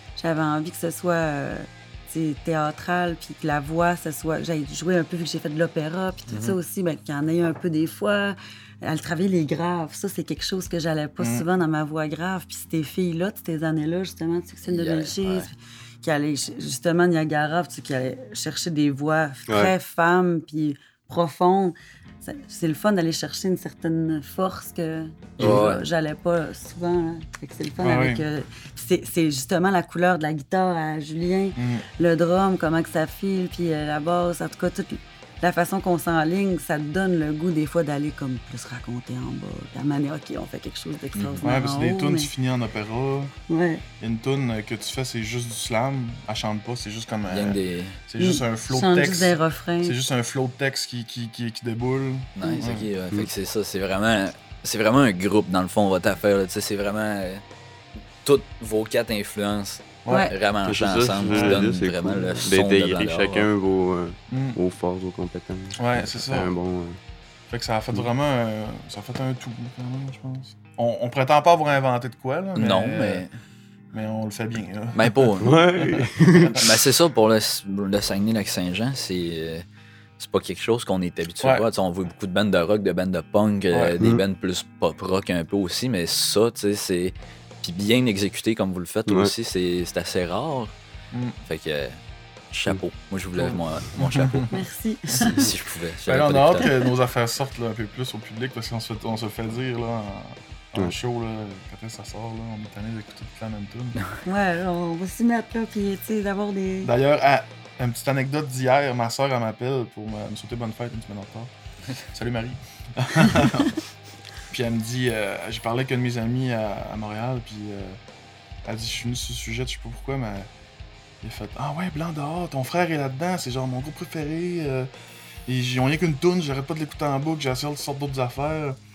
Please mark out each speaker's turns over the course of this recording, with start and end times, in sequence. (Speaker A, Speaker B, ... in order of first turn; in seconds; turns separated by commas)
Speaker A: 0.2-42.3, Speaker B: 6.3-6.6, Speaker C: 11.2-11.4, Speaker B: 14.7-15.5, Speaker D: 19.5-19.7, Speaker B: 25.4-25.8, Speaker C: 27.8-28.2, Speaker C: 31.6-31.9, Speaker B: 41.1-41.5, Speaker C: 41.4-43.3, Speaker A: 43.5-43.8, Speaker C: 44.0-52.9, Speaker B: 47.3-48.0, Speaker A: 48.2-50.0, Speaker B: 52.4-57.4, Speaker B: 58.2-63.5, Speaker C: 60.0-60.3, Speaker A: 60.1-60.3, Speaker D: 60.6-67.0, Speaker C: 61.2-61.7, Speaker C: 64.3-64.6, Speaker C: 65.8-66.5, Speaker C: 67.5-73.2, Speaker B: 72.5-73.3, Speaker C: 73.9-76.6, Speaker B: 74.9-75.6, Speaker D: 75.4-76.7, Speaker B: 76.3-79.6, Speaker B: 80.2-90.7, Speaker C: 83.7-84.0, Speaker C: 91.1-91.4, Speaker B: 91.5-92.0, Speaker B: 92.5-94.5, Speaker C: 93.3-94.5, Speaker A: 94.5-95.5, Speaker B: 95.2-96.7, Speaker C: 96.0-104.0, Speaker A: 104.2-106.9, Speaker C: 106.8-111.5, Speaker C: 112.1-113.8, Speaker C: 114.5-118.0, Speaker C: 118.6-120.5, Speaker C: 121.2-124.9, Speaker C: 125.5-128.8